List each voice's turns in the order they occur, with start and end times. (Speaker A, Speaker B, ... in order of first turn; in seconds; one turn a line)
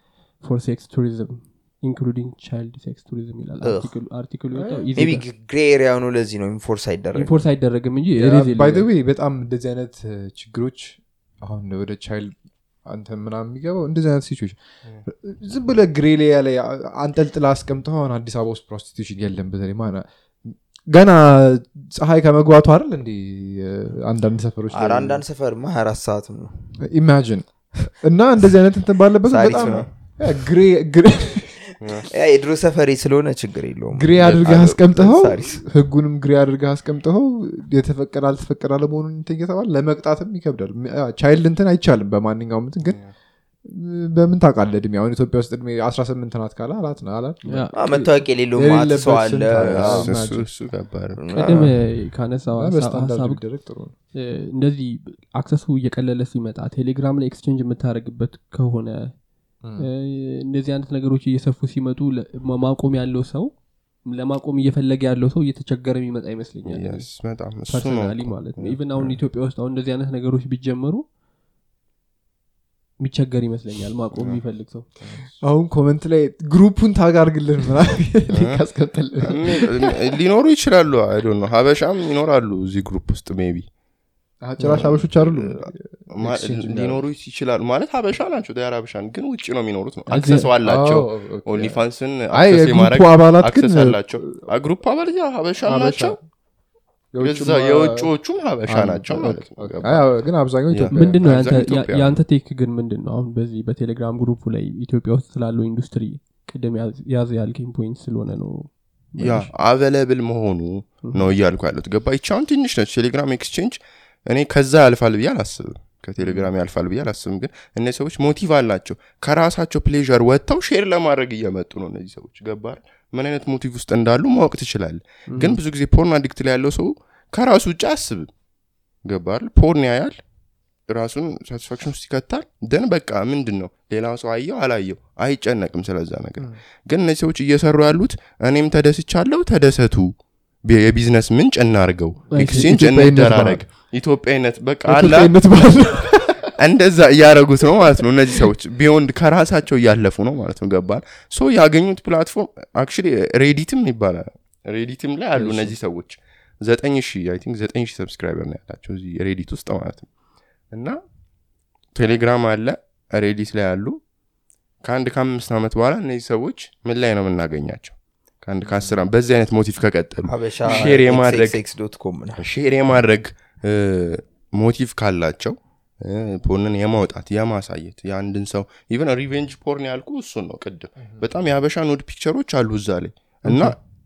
Speaker A: 0.3-5.3
Speaker B: 3.6-3.9
Speaker C: 4.5-5.0
Speaker B: 4.9-7.4
Speaker A: 7.1-8.9
Speaker C: 8.2-25.2
Speaker B: 24.7-26.7
Speaker C: 26.8-31.6
Speaker B: 29.2-29.9
Speaker D: 29.5-29.9
Speaker D: 31.8-32.1
Speaker B: 32.0-35.6
Speaker C: 33.9-43.0
Speaker D: 34.2-34.8
Speaker D: 42.8-43.1
Speaker C: 43.6-47.7
Speaker A: 47.5-48.1
Speaker B: 47.7-50.1
Speaker C: 48.5-50.5
Speaker D: 49.6-51.2
Speaker B: 51.1-51.7
Speaker A: 51.3-53.4
Speaker C: 52.5-53.9
Speaker A: 54.1-67.1
Speaker C: 59.6-59.9
Speaker D: 66.6-69.2
Speaker A: 67.7-71.0
Speaker A: 73.0-74.9
Speaker D: 74.1-74.4
Speaker D: 75.0-75.2
Speaker C: 75.4-79.9
Speaker D: 78.3-78.6
Speaker D: 79.2-83.7
Speaker C: 84.4-87.0
Speaker D: 84.6-96.2
Speaker A: 90.1-90.5
Speaker C: 90.6-91.8
Speaker C: 92.3-94.4
Speaker C: 95.6-96.2
Speaker C: 97.1-98.1
Speaker D: 97.2-100.1
Speaker C: 98.7-101.2
Speaker D: 100.7-102.2
Speaker A: 100.9-109.5
Speaker D: 109.2-128.3
Speaker A: 111.0-111.3
Speaker A: 125.3-125.6
Speaker D: 129.0-130.2
Speaker D: 130.9-145.3
Speaker A: 142.3-142.8
Speaker C: 142.4-143.6
Speaker C: 144.8-146.5
Speaker D: 146.6-160.1
Speaker C: 155.3-155.7
Speaker D: 160.7-161.0
Speaker D: 161.9-164.0
Speaker D: 164.8-171.6
Speaker B: 170.3-172.4
Speaker D: 172.4-183.8
Speaker A: 183.5-183.7